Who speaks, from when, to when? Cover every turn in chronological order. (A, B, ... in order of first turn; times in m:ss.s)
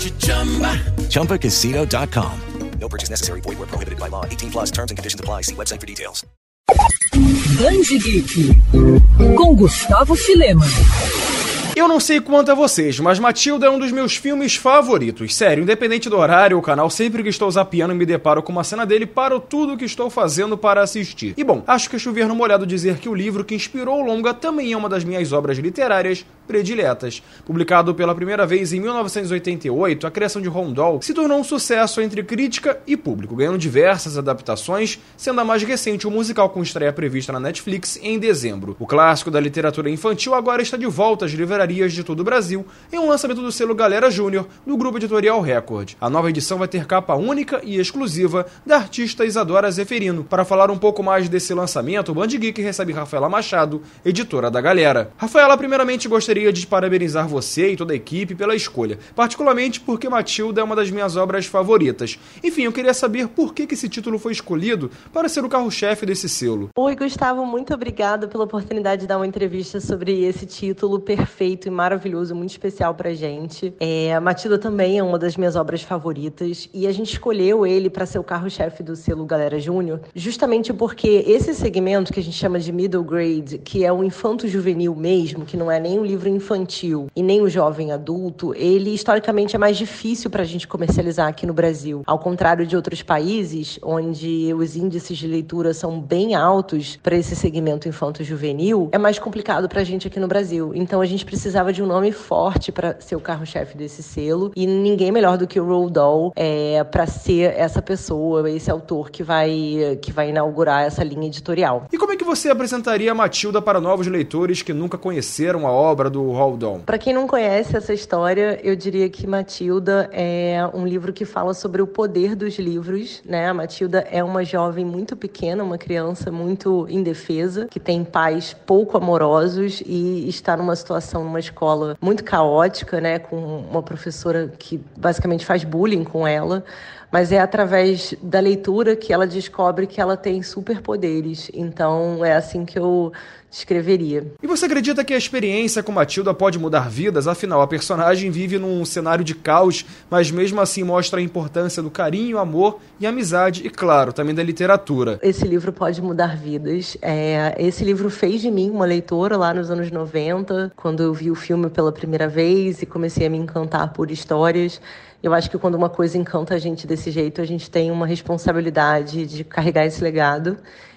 0:00.8-0:06.2 A
0:07.5-0:10.8 B
0:11.8-1:06.7 C
1:06.8-1:51.9 D
1:51.9-1:56.9 C
1:56.9-2:24.4 D
2:24.4-2:35.2 C
2:35.2-2:50.6 D